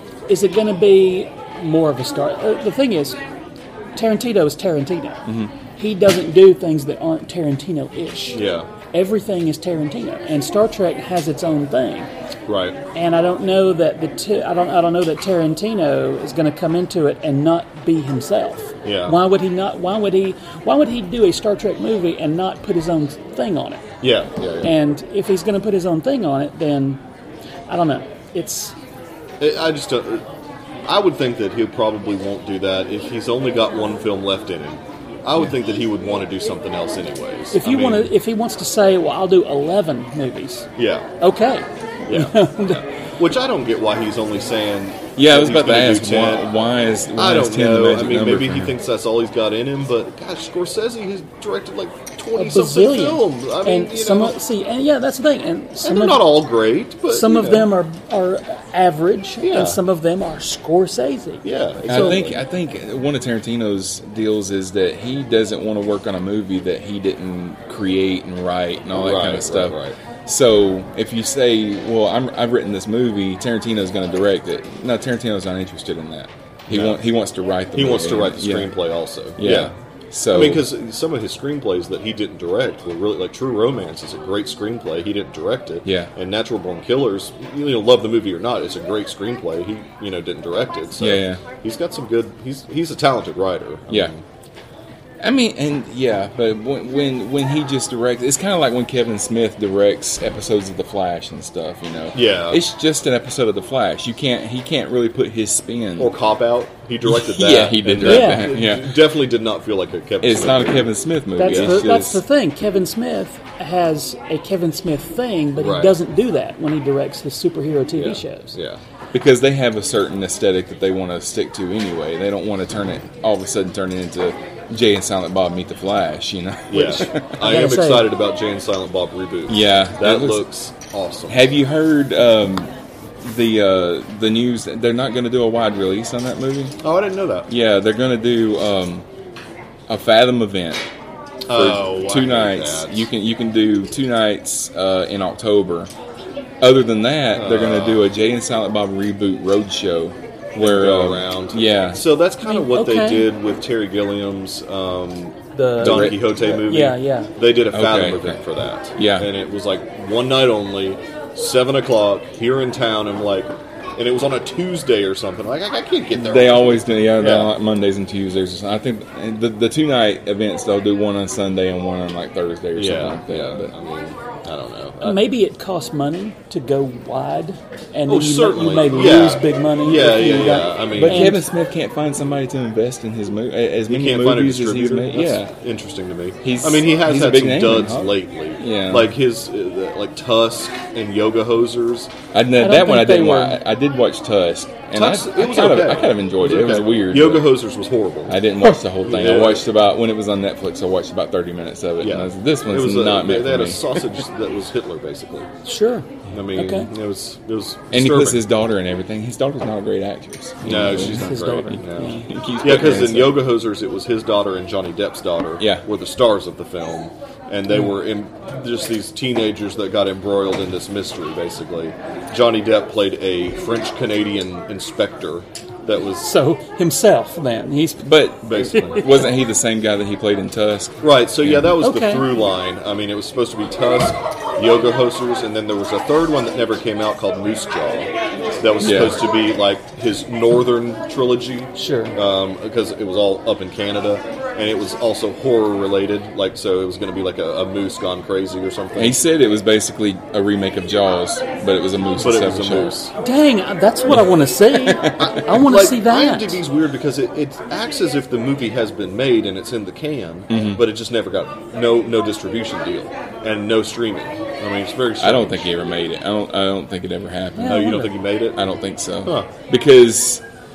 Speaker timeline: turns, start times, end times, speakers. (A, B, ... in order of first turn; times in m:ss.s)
0:00.3-0:03.2 A
0:03.9-0:05.2 A
0:05.2-0:05.5 B
0:05.8-0:12.1 A
0:08.3-0:08.7 C
0:12.5-0:12.8 C
0:12.9-0:23.9 A
0:18.8-0:19.2 C
0:24.0-0:24.7 C
0:24.6-0:27.0 A
0:27.7-0:28.7 A
0:29.4-0:30.2 C
0:30.8-0:38.1 C
0:37.5-0:40.7 A
0:40.8-0:41.1 C
0:41.2-0:42.8 A
0:42.1-0:46.5 C
0:45.2-0:48.8 B
0:47.2-0:54.4 C
0:52.4-0:56.4 A
0:55.8-0:57.7 C
0:57.1-1:02.2 A
0:59.4-0:59.8 C
1:01.4-1:02.4 C
1:01.9-1:18.7 B
1:08.9-1:09.9 C
1:16.7-1:17.0 C
1:17.7-1:19.7 C
1:19.4-1:20.7 B
1:20.3-1:34.2 C
1:25.8-1:26.1 B
1:31.0-1:31.4 B
1:35.2-1:46.1 B
1:42.1-1:42.6 C
1:46.0-1:51.9 C
1:47.0-1:49.1 B
1:48.0-1:48.4 A
1:50.2-1:52.2 B
1:51.4-1:58.6 A
1:55.6-1:56.0 C
1:57.9-1:58.8 C
1:59.1-2:07.3 B
2:06.7-2:11.4 C
2:07.4-2:08.1 A
2:09.5-2:10.4 B
2:11.3-2:16.7 B
2:16.8-2:17.5 C
2:17.5-2:19.0 B
2:19.9-2:20.8 B
2:21.5-2:23.0 C
2:21.5-2:25.9 B
2:26.6-2:32.0 B
2:27.3-2:28.1 C
2:30.6-2:47.5 C
2:32.4-2:33.3 A
2:35.5-2:37.3 A
2:35.8-2:36.6 B
2:37.7-2:38.4 B
2:39.0-2:39.3 B
2:46.1-2:53.7 B
2:52.8-2:55.2 C
2:55.0-3:01.4 A
2:58.1-3:01.4 C
3:00.9-3:05.5 B
3:03.9-3:12.1 C
3:06.4-3:09.1 B
3:12.3-3:17.5 B
3:12.6-3:13.6 A
3:14.9-3:18.4 C
3:18.3-3:24.0 B
3:19.0-3:19.6 C
3:22.0-3:25.5 C
3:25.6-3:26.9 A
3:26.3-3:28.4 C
3:27.9-3:33.5 B
3:30.6-3:46.3 C
3:30.8-3:32.3 A
3:35.6-3:35.8 B
3:46.2-3:49.2 A
3:48.0-3:51.7 B
3:48.4-3:49.0 C
3:51.0-4:09.2 C
3:51.8-3:52.2 A
3:58.8-3:59.2 B
4:01.7-4:02.2 A
4:08.9-4:13.0 B
4:12.2-4:13.1 C
4:13.2-4:16.6 A
4:14.1-4:15.4 B
4:15.2-4:25.6 C
4:20.5-4:20.8 B
4:25.2-4:30.4 B
4:27.6-4:28.1 A
4:27.6-4:28.6 C
4:29.2-4:29.5 C